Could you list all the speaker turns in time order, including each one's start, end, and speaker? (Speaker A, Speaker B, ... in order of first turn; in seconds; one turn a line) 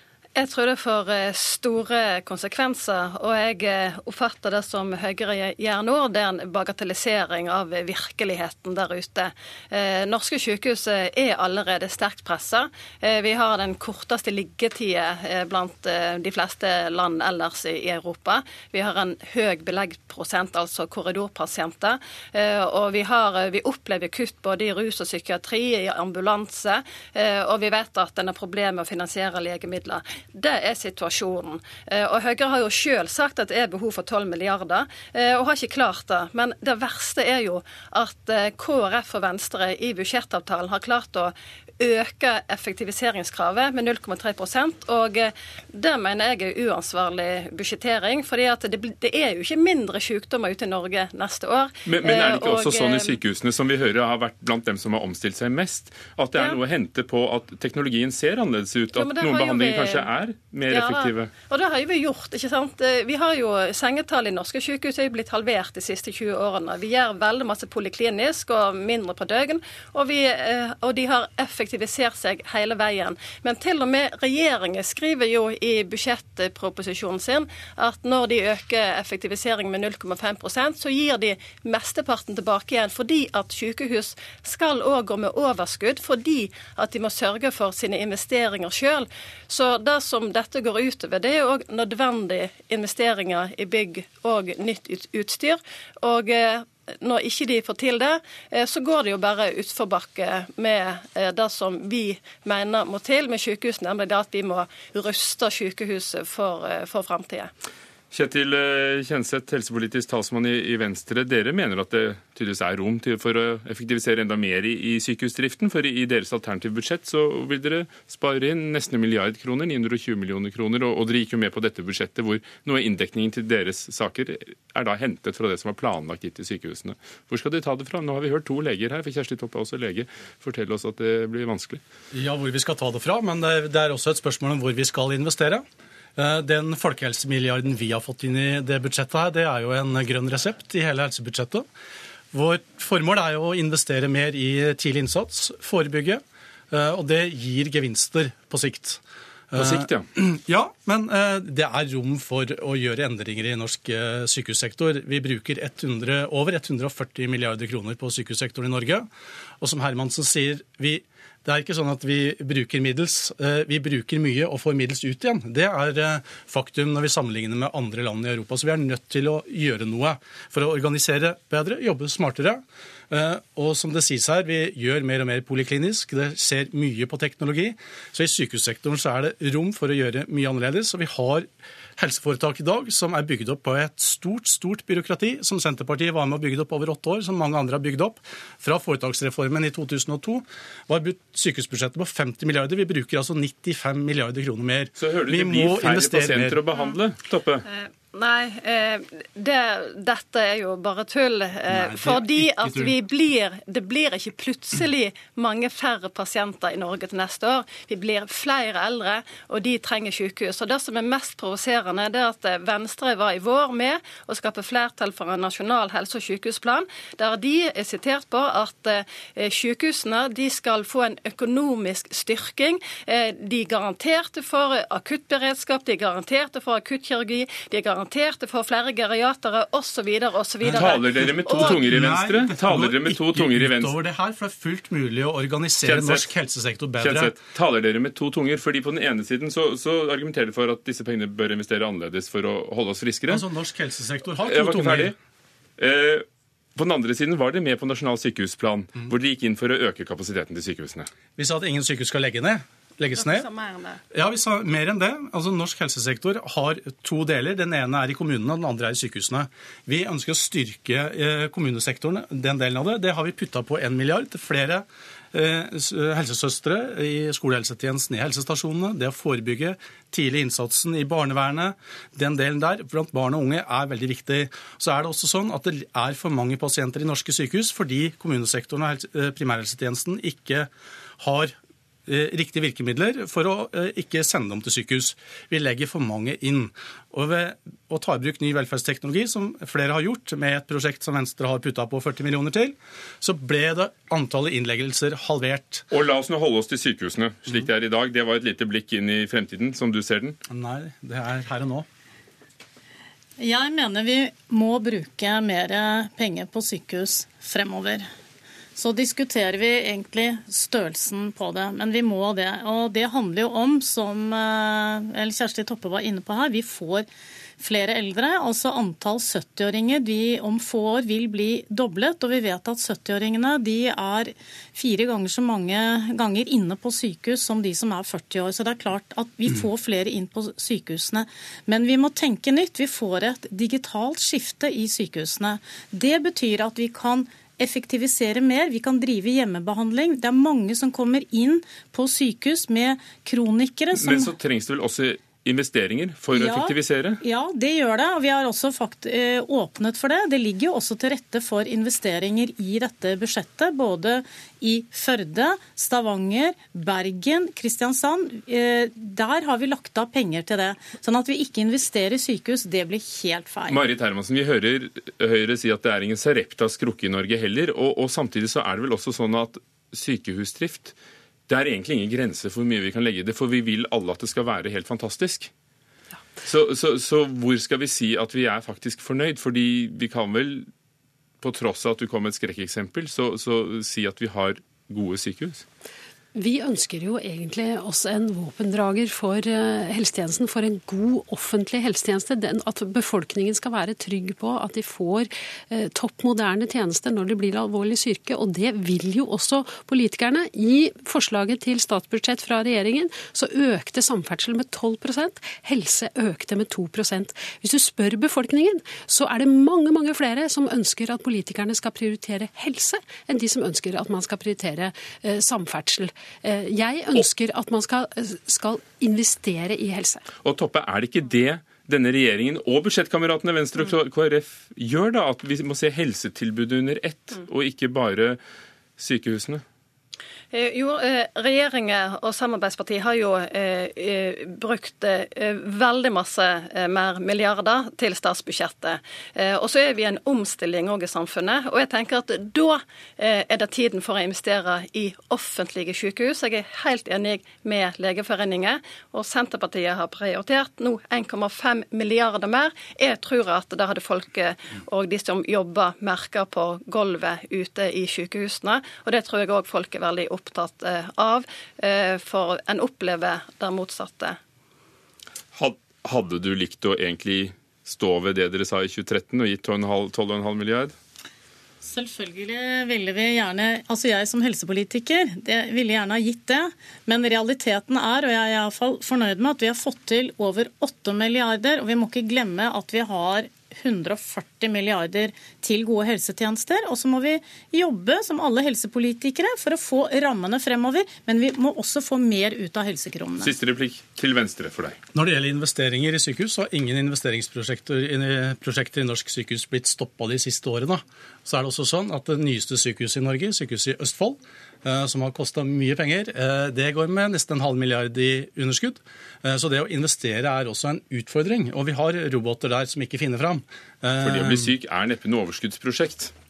Speaker A: 0.3-53.2
Speaker B: 51.9-61.3
Speaker A: 58.9-60.1
Speaker A: 60.7-107.5
Speaker B: 108.1-131.8
Speaker C: 132.1-135.6
Speaker C: 136.2-141.7
Speaker C: 142.3-149.0
Speaker C: 149.5-159.1
Speaker B: 149.5-150.1
Speaker C: 159.6-196.6
Speaker B: 195.0-197.7
Speaker A: 197.7-231.8
Speaker C: 201.7-202.9
Speaker C: 230.6-237.3
Speaker B: 230.7-234.0
Speaker B: 235.8-236.3
Speaker B: 237.0-243.5
Speaker C: 243.3-245.1
Speaker B: 244.4-245.1
Speaker B: 245.8-251.1
Speaker C: 251.3-253.4
Speaker A: 253.2-254.0
Speaker C: 254.1-281.5
Speaker C: 282.1-295.8
Speaker B: 295.9-300.4
Speaker C: 300.5-301.9
Speaker D: 303.4-308.1
Speaker D: 308.8-317.1
Speaker D: 317.6-344.3
Speaker B: 343.9-347.2
Speaker D: 346.3-363.8
Speaker B: 363.7-370.9
Speaker B: 371.5-375.5
Speaker B: 376.4-380.7
Speaker B: 381.4-385.6
Speaker E: 386.3-420.2
Speaker B: 420.4-428.4
Speaker B: 429.0-429.6
Speaker A: 430.5-464.4
Speaker B: 465.5-470.9
Speaker D: 471.8-493.5
Speaker B: 493.4-495.0
Speaker C: 495.1-514.8
Speaker B: 514.2-516.3